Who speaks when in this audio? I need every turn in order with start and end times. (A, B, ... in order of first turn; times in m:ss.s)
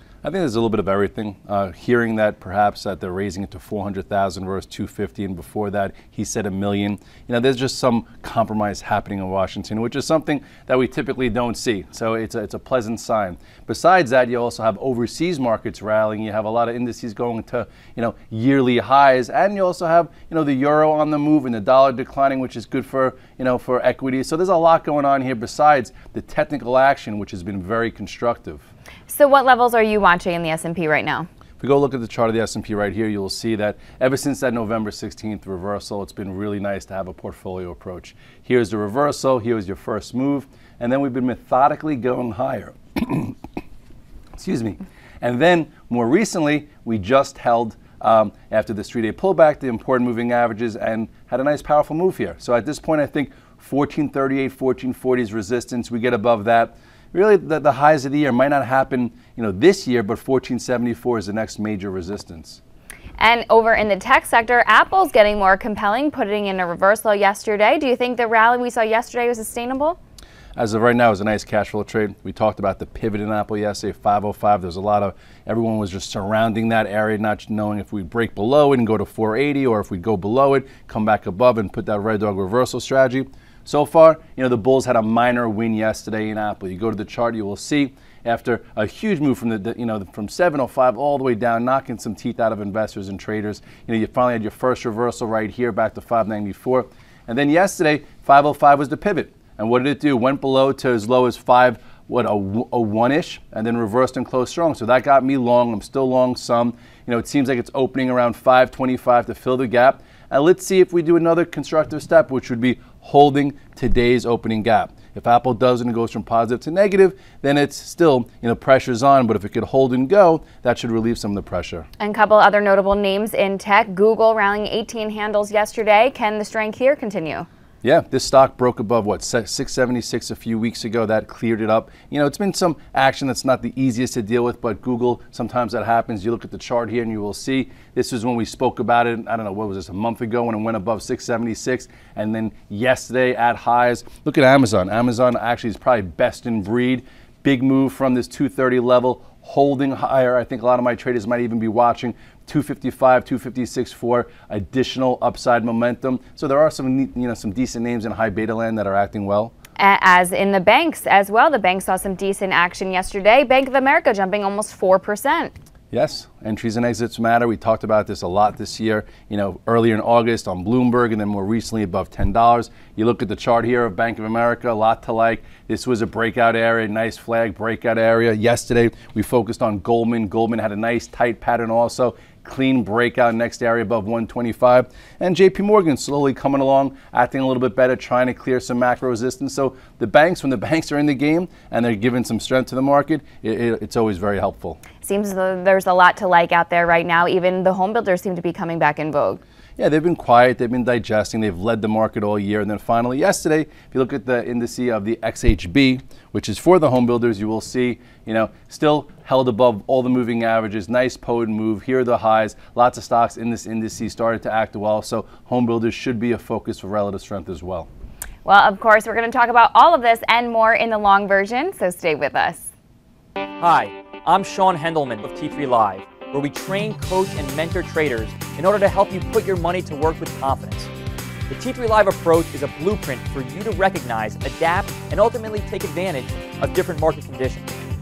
0:00.2-0:28.7 A
0:29.1-0:31.3 B
0:31.6-0:43.4 A
0:44.4-1:02.6 A
1:03.2-1:10.0 B
1:10.6-2:01.9 A
2:02.0-2:07.5 B
2:07.8-2:39.5 A
2:39.8-2:45.5 B
2:45.9-3:14.8 A
3:15.0-3:19.4 B
3:19.8-3:37.9 A
3:38.4-3:42.7 B
3:43.6-3:50.9 C
3:51.5-3:57.7 C